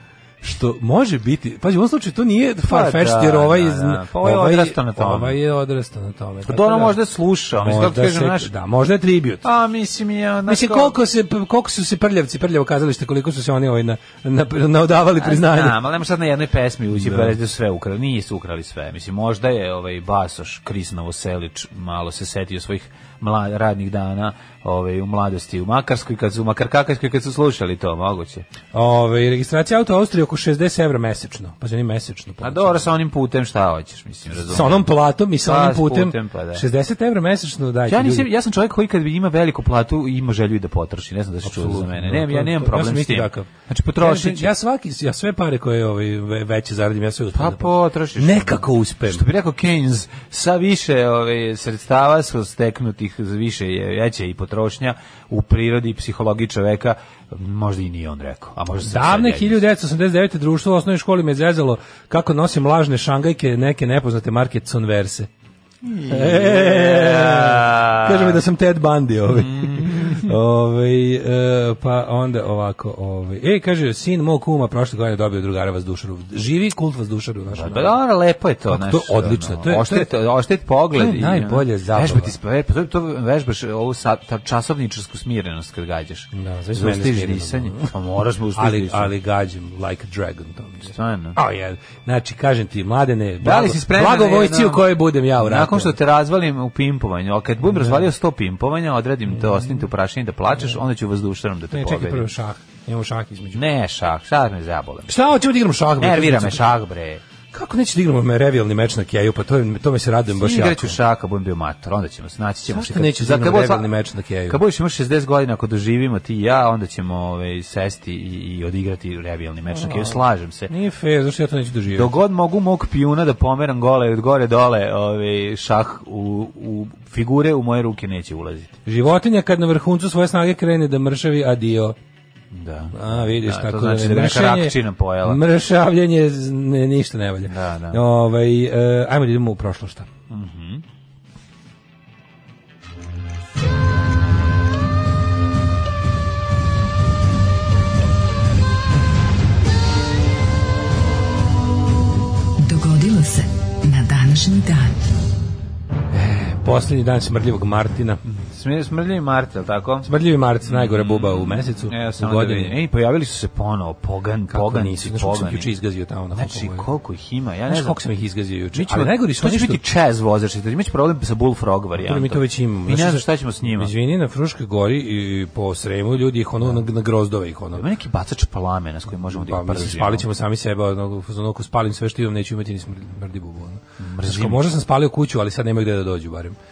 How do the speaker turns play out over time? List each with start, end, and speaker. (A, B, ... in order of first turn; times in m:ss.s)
0:00.4-0:07.0 A
0:02.7-0:05.4 B
0:06.5-0:08.5 B
0:07.6-0:09.4 A
0:09.4-0:11.0 B
0:10.5-0:15.8 A
0:15.2-0:28.5 B
0:16.9-0:17.4 A
0:28.7-0:32.9 A
0:32.4-0:34.9 B
0:34.4-0:38.3 A
0:35.4-0:36.6 B
0:37.9-0:44.5 B
0:41.4-0:49.3 A
0:47.3-0:59.6 B
0:58.8-1:05.3 A
1:05.8-1:08.4 B
1:06.1-1:18.0 A
1:09.3-1:10.3 B
1:17.5-1:29.1 B
1:18.7-1:20.1 A
1:20.9-1:22.4 A
1:26.4-1:27.9 A
1:28.6-1:36.0 A
1:30.9-1:31.4 B
1:33.4-1:42.3 B
1:37.6-1:38.1 A
1:39.3-1:39.9 A
1:41.7-1:43.6 A
1:43.5-1:45.2 B
1:45.1-1:46.6 A
1:46.0-1:47.2 B
1:47.5-1:51.0 A
1:50.4-1:53.9 B
1:52.7-1:54.6 A
1:54.5-2:00.7 B
1:59.7-2:02.1 A
2:01.9-2:08.8 B
2:08.9-2:12.0 A
2:12.5-2:15.4 B
2:12.9-2:20.1 A
2:17.5-2:18.0 B
2:20.3-2:20.8 B
2:32.7-2:34.9 C
2:36.1-2:38.2 A
2:38.3-2:40.1 B
2:40.0-2:42.8 A
2:40.6-2:45.7 B
2:44.5-2:46.9 A
2:46.3-2:48.0 B
2:47.7-2:49.8 A
2:48.8-2:53.9 B
2:52.0-2:57.9 A
2:57.8-3:00.2 B
2:59.3-3:06.6 A
3:04.0-3:04.7 B